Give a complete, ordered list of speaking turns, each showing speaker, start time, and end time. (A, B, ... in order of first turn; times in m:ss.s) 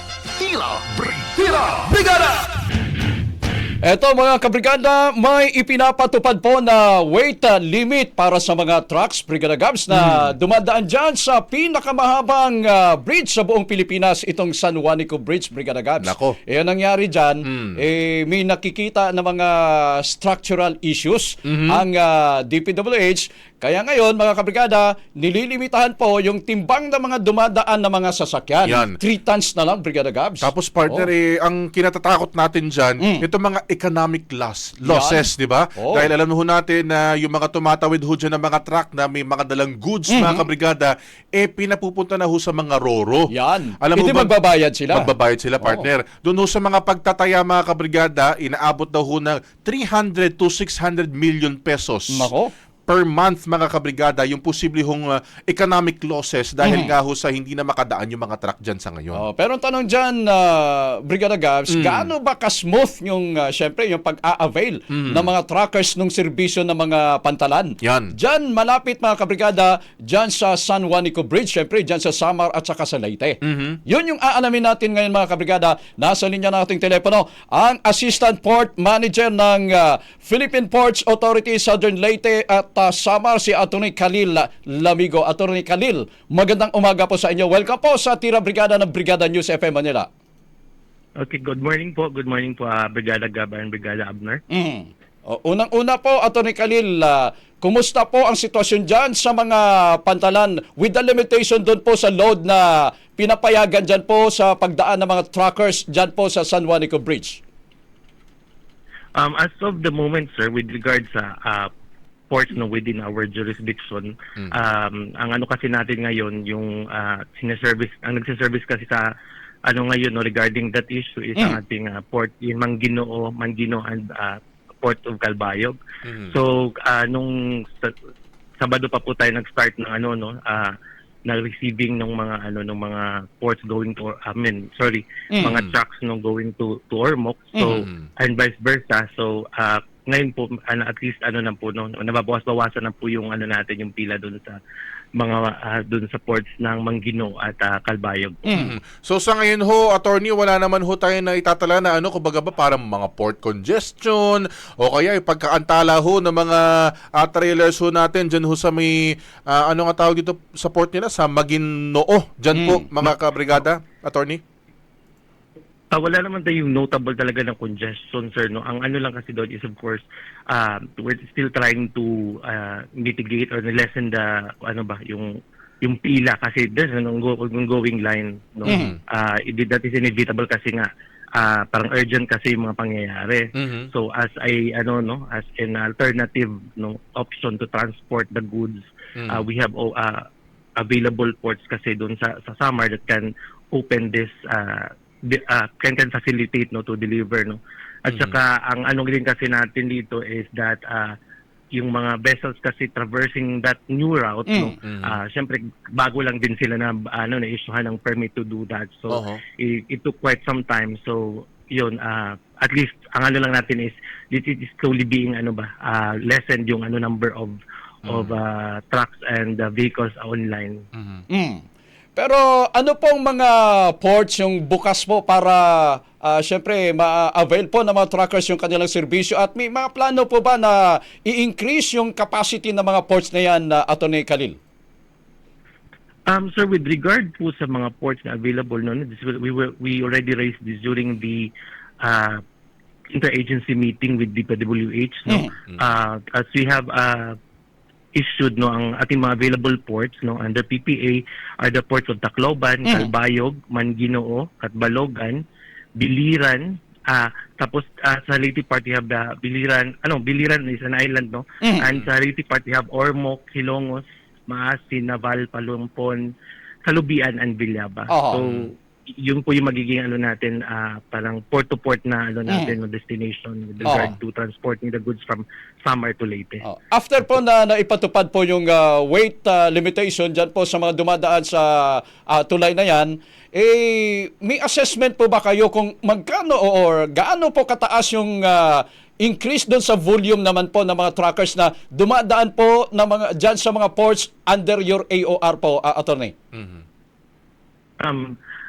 0:00.4-0:02.5 A
0:03.8-0:31.1 A
0:09.9-0:10.3 B
0:16.0-0:16.4 B
0:17.4-0:17.8 B
0:21.4-0:21.8 B
0:28.6-0:29.0 B
0:30.4-0:44.3 B
0:33.0-0:33.3 A
0:34.8-0:36.1 A
0:40.1-0:40.4 A
0:43.3-0:45.1 A
0:44.9-0:52.3 B
0:52.1-0:52.5 A
0:52.9-0:59.2 B
0:56.6-0:56.9 A
0:59.2-1:30.1 A
1:01.7-1:02.1 B
1:04.9-1:05.3 B
1:07.8-1:08.1 B
1:13.4-1:13.8 B
1:31.2-1:34.4 C
1:34.5-1:47.4 A
1:49.2-1:51.7 C
1:52.3-1:59.1 C
1:59.7-2:05.8 C
2:06.0-2:06.4 B
2:06.3-2:07.9 C
2:08.6-2:10.7 C
2:11.2-2:24.6 C
2:15.3-2:15.6 A
2:15.4-2:15.7 B
2:17.6-2:17.8 A
2:17.7-2:18.1 B
2:25.2-2:28.6 C
2:28.5-2:28.7 A
2:28.5-2:44.4 B
2:42.5-2:42.9 A
2:45.9-2:55.3 C
2:55.8-3:10.2 C
2:58.6-2:59.0 B
2:58.7-2:58.9 A
3:03.6-3:03.9 B
3:09.2-3:09.4 B
3:10.8-3:21.1 C
3:18.1-3:18.3 B
3:21.7-3:40.8 C
3:24.5-3:24.7 A
3:24.8-3:25.2 B
3:29.1-3:29.4 B
3:38.0-3:38.4 B
3:40.9-3:41.2 B
3:41.3-3:41.6 A
3:42.2-3:54.6 A
3:56.3-4:01.5 C
4:02.0-4:02.4 C
4:03.1-4:07.3 C
4:05.3-4:05.5 A
4:08.2-4:15.4 C
4:12.8-4:13.1 A
4:16.0-4:26.3 C
4:26.9-4:36.6 C
4:28.1-4:28.4 A
4:28.4-4:28.7 B
4:32.5-4:32.7 A
4:33.8-4:34.1 B
4:33.8-4:34.1 A
4:36.6-4:56.3 A
4:56.5-4:56.8 B
4:58.0-4:58.3 C